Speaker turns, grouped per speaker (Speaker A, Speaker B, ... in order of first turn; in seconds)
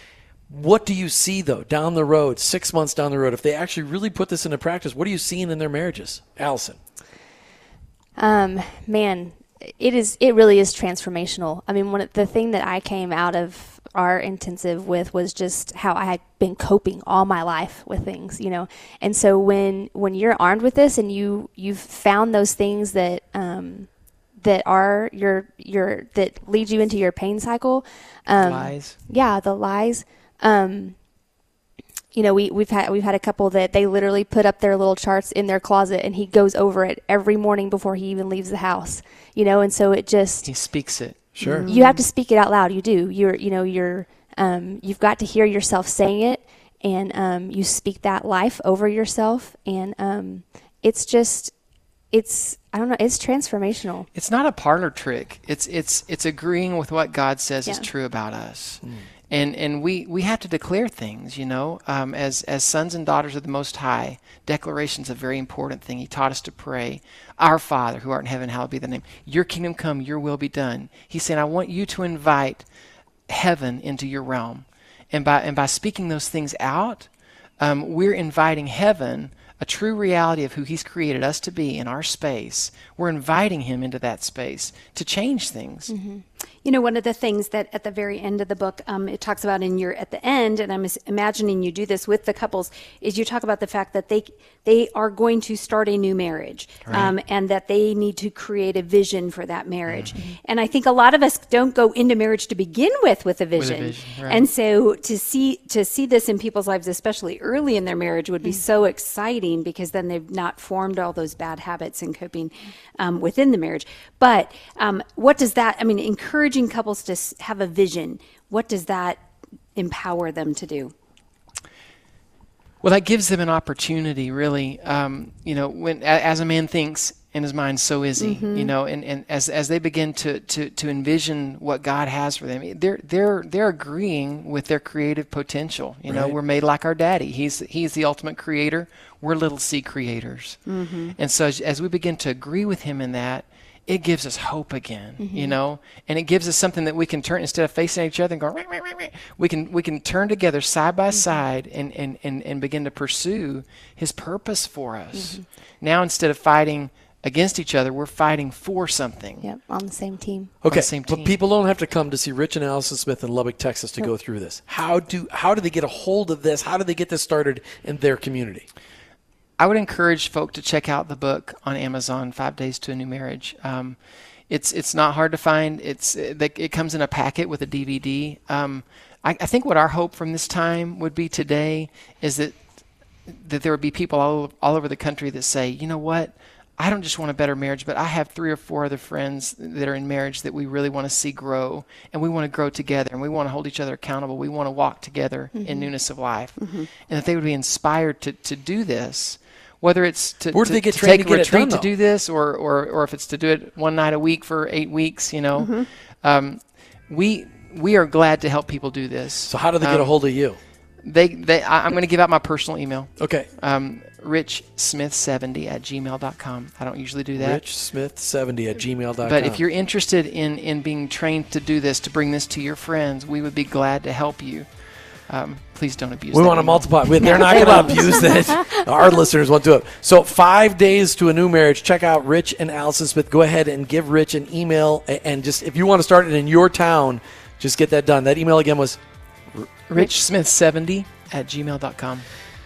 Speaker A: 0.5-6.8, 41.3-41.7, 136.1-136.3, 160.6-168.7, 200.5-201.9, 209.5-210.6, 213.2-213.5, 217.3-219.6, 226.3-239.0
Speaker B: 8.2-31.0, 32.1-40.5, 41.6-51.5, 52.1-54.1, 85.9-86.2, 145.2-145.6, 155.1-155.4, 159.4-160.5, 195.5-195.9
Speaker C: 28.3-29.0, 40.4-41.3, 54.1-72.7, 73.3-85.9, 96.8-97.1, 103.5-104.5, 122.8-159.4, 160.7-161.3, 169.6-210.1, 211.0-217.6, 219.2-228.1, 239.9-242.2
Speaker D: 41.4-42.0, 86.6-119.2, 119.7-120.9, 128.2-128.7, 140.7-141.2, 196.6-196.9, 205.6-205.9, 227.3-227.8